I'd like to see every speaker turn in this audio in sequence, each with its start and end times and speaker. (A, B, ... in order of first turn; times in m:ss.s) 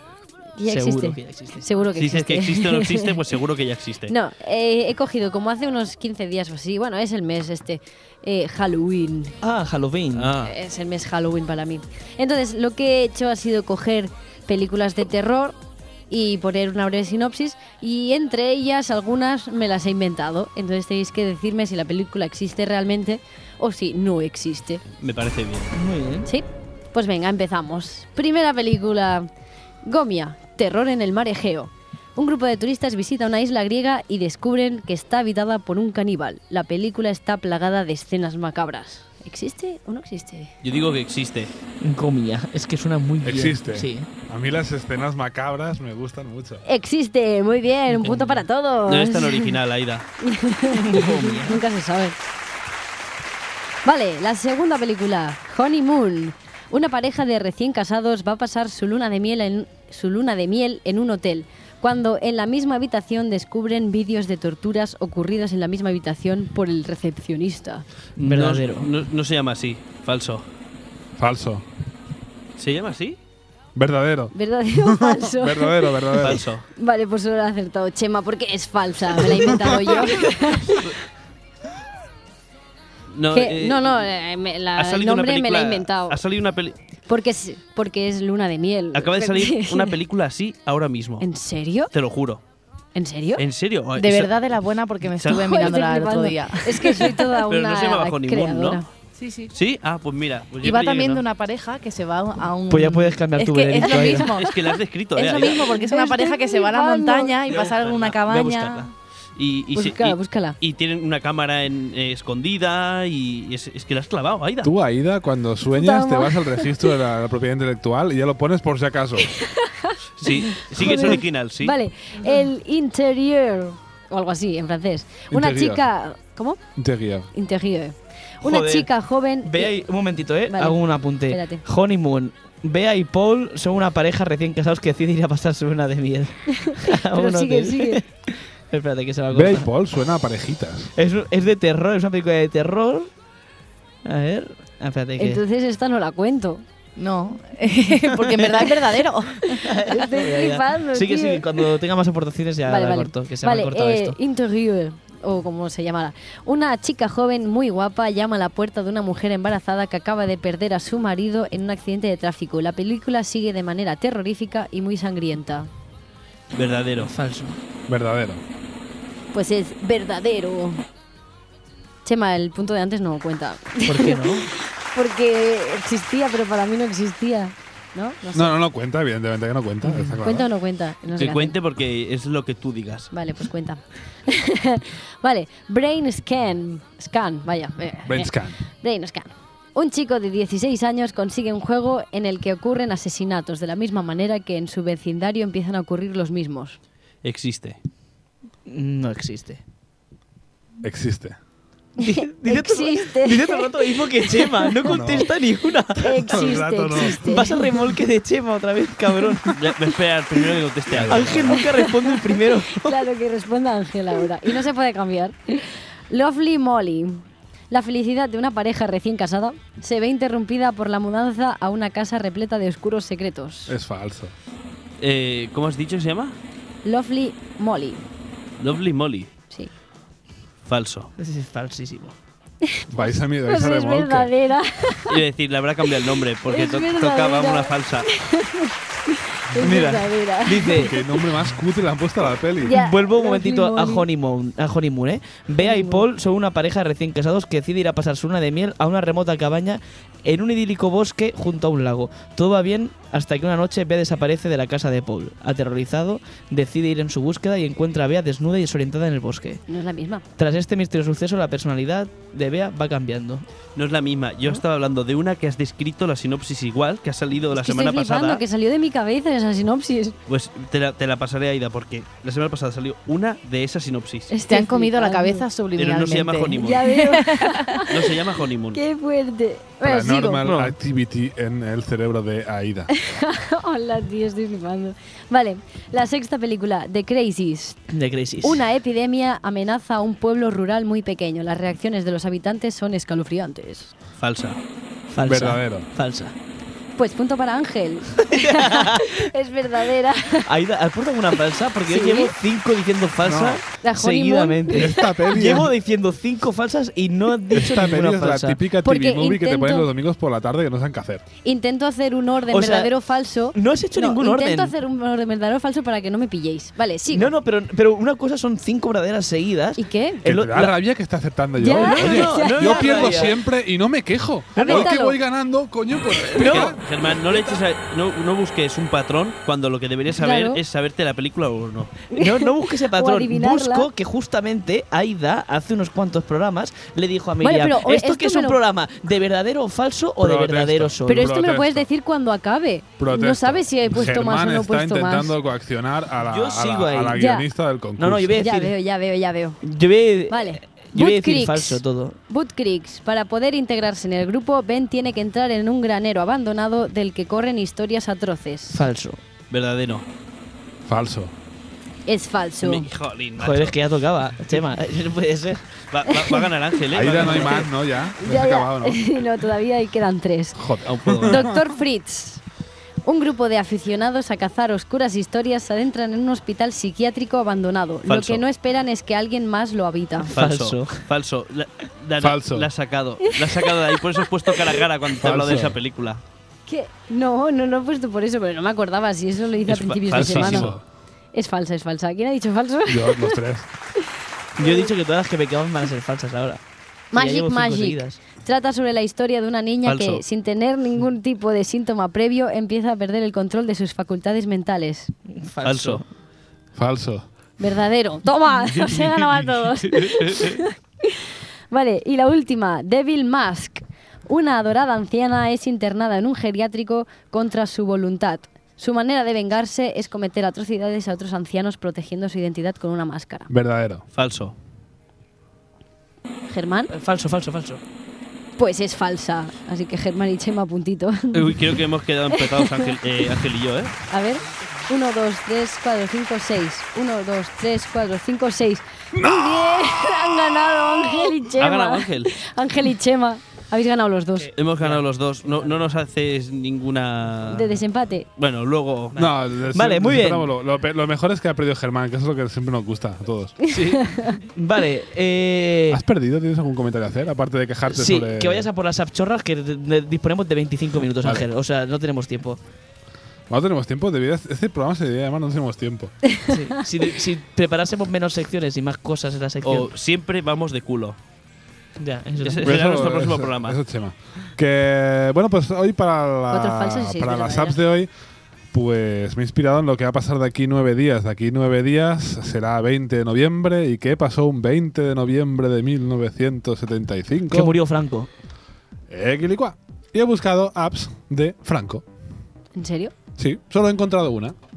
0:00.6-0:03.2 A
0:00.7-0:01.7 B
0:01.9-0:04.1 C
0:04.1-0:09.3 A
0:09.4-0:10.3 B
0:10.1-0:10.5 C
0:10.4-0:15.6 A
0:16.1-0:24.8 A
0:25.0-0:25.8 C
0:25.7-0:26.3 B
0:26.2-0:29.3 A
0:29.8-0:40.5 A
0:40.6-0:41.5 C
0:41.8-0:44.1 B
0:43.2-0:46.6 D
0:46.6-0:49.6 A
0:48.0-0:48.4 B
0:48.8-0:50.1 C
0:50.2-0:52.2 A
0:50.7-0:51.6 B
0:53.8-1:07.8 A
1:08.2-1:08.9 B
1:08.2-1:10.4 C
1:11.2-1:11.6 D
1:12.6-1:13.2 C
1:13.7-1:16.4 D
1:14.3-1:20.9 A
1:16.2-1:16.6 C
1:23.1-1:24.0 C
1:23.3-1:26.2 A
1:24.7-1:26.8 C
1:27.1-1:30.0 A
1:28.9-1:31.2 C
1:31.2-1:31.9 A
1:31.9-1:32.4 C
1:32.9-1:33.4 A
1:33.4-1:34.3 C
1:34.0-1:37.4 E
1:35.2-1:35.6 C
1:35.2-1:38.9 A
1:37.4-1:38.8 C
1:39.2-1:39.5 E
1:39.5-1:41.1 C
1:40.6-1:48.9 E
1:40.7-1:41.2 B
1:42.7-1:44.3 B
1:43.8-1:44.4 A
1:44.3-1:45.8 C
1:45.4-1:47.4 A
1:47.5-1:48.9 B
1:49.4-1:54.7 C
1:49.7-1:50.6 A
1:54.6-1:59.3 D
1:55.7-1:57.0 A
1:59.2-2:06.6 A
2:00.2-2:01.8 C
2:05.3-2:05.8 D
2:06.8-2:07.3 D
2:07.3-2:09.8 A
2:08.4-2:08.9 B
2:09.4-2:19.7 B
2:10.5-2:11.6 A
2:16.5-2:18.0 A
2:19.3-2:20.9 D
2:21.0-2:23.1 B
2:24.0-2:25.4 B
2:25.2-2:26.6 A
2:27.0-2:29.7 E
2:28.1-2:28.9 B
2:29.5-2:31.5 A
2:29.5-2:34.2 B
2:32.7-2:45.7 A
2:46.5-2:47.1 C
2:47.0-2:47.6 B
2:47.9-2:48.4 D
2:49.3-2:50.8 A
2:52.0-2:58.6 A
2:53.8-2:54.5 B
2:58.3-3:00.5 D
3:00.0-3:01.6 A
3:01.1-3:03.1 C
3:03.1-3:16.8 A
3:08.0-3:08.6 D
3:17.2-3:17.8 C
3:18.7-3:19.6 B
3:20.8-3:21.4 D
3:22.0-3:29.6 B
3:22.0-3:25.0 A
3:24.9-3:25.3 D
3:26.0-3:27.5 A
3:26.3-3:27.2 D
3:29.5-3:31.6 C
3:30.9-3:31.5 D
3:31.1-3:33.0 B
3:31.5-3:43.7 A
3:43.7-3:44.3 D
3:45.0-3:46.4 C
3:46.8-3:48.0 A
3:48.6-3:49.3 C
3:50.6-3:51.1 C
3:51.2-3:52.1 B
3:52.6-3:55.2 A
3:52.9-3:54.3 D
3:55.1-3:58.1 C
3:56.4-4:01.0 A
3:59.5-4:01.0 B
4:00.8-4:02.8 D
4:02.6-4:04.0 A
4:02.7-4:19.6 B
4:05.6-4:06.0 A
4:19.7-4:20.2 A
4:20.4-4:23.4 B
4:23.8-4:28.4 C
4:27.5-4:30.2 A
4:30.3-4:34.3 C
4:34.3-4:35.4 A
4:34.5-4:37.9 E
4:35.7-4:37.0 C
4:36.6-4:38.2 A
4:37.9-4:38.8 C
4:38.7-4:40.4 A
4:39.8-4:42.9 D
4:40.4-4:40.7 C
4:42.9-4:47.8 A
4:47.9-4:48.6 B
4:48.4-4:53.9 A
4:54.2-4:54.6 C
4:55.1-4:56.3 B
4:55.2-4:55.9 D
4:57.0-5:00.5 A
4:58.2-4:59.3 B
5:00.4-5:08.6 B
5:01.9-5:02.3 A
5:03.2-5:03.6 D
5:03.8-5:05.0 A
5:04.7-5:05.7 D
5:07.5-5:11.2 D
5:08.8-5:09.9 A
5:11.4-5:17.3 A
5:12.5-5:12.9 B
5:13.5-5:14.7 B
5:17.1-5:20.7 B
5:19.8-5:20.2 A
5:20.2-5:26.8 D
5:21.6-5:23.1 A
5:21.7-5:23.4 B
5:24.6-5:25.2 A
5:24.6-5:24.9 B
5:26.3-5:26.8 B
5:26.4-5:32.0 C
5:30.1-5:30.6 A
5:32.1-5:41.3 B
5:32.1-5:33.9 A
5:37.4-5:38.6 A
5:40.2-5:41.9 D
5:41.1-5:45.3 A
5:43.0-5:48.5 D
5:46.2-5:47.2 B
5:47.1-5:47.4 A
5:48.0-5:48.7 B
5:48.4-5:49.6 A
5:49.6-5:52.2 B
5:50.3-5:58.8 A
5:58.7-5:59.2 B
5:59.5-6:00.0 C
6:00.8-6:01.3 D
6:02.1-6:02.9 A
6:02.6-6:03.8 C
6:03.4-6:05.7 B
6:05.9-6:07.7 C
6:06.1-6:06.4 A
6:06.9-6:09.0 D
6:07.2-6:07.6 B
6:08.2-6:10.6 A
6:10.6-6:11.5 D
6:10.8-6:11.5 C
6:11.2-6:12.4 A
6:13.0-6:20.3 A
6:18.0-6:18.4 C
6:20.2-6:21.0 B
6:20.3-6:26.2 C
6:22.2-6:22.7 D
6:23.3-6:24.8 A
6:25.2-6:25.8 D
6:26.7-6:30.7 A
6:29.6-6:30.8 C
6:30.1-6:30.8 D
6:31.3-6:33.4 A
6:32.9-6:33.7 D
6:34.6-6:36.6 B
6:34.6-6:34.9 A
6:37.1-6:45.1 A
6:37.1-6:38.2 B
6:39.8-6:40.2 C
6:45.3-6:46.0 B
6:45.6-6:46.0 C
6:46.8-6:47.2 D
6:47.6-7:03.5 A
6:49.8-6:50.6 C
7:03.5-7:04.0 D
7:04.1-7:04.5 C
7:06.5-7:06.9 A
7:06.9-7:07.8 B
7:08.6-7:11.8 A
7:11.3-7:14.0 C
7:12.3-7:12.9 A
7:14.1-7:24.5 A
7:19.1-7:20.2 D
7:21.6-7:22.3 C
7:24.4-7:25.8 B
7:24.5-7:27.8 C
7:27.5-7:28.3 A
7:28.4-7:29.2 C
7:29.1-7:30.5 B
7:29.1-7:33.6 D
7:33.7-7:34.4 A
7:34.3-7:36.0 B
7:35.9-7:38.7 D
7:37.9-7:42.6 B
7:43.5-7:46.2 D
7:46.5-7:49.9 B
7:49.6-7:51.2 C
7:52.0-7:53.0 B
7:52.4-7:53.8 C
7:52.6-7:58.1 D
7:56.5-7:57.8 A
7:58.7-8:07.7 D
8:07.5-8:08.3 B
8:09.1-8:12.0 D
8:12.7-8:13.1 A
8:13.4-8:14.5 D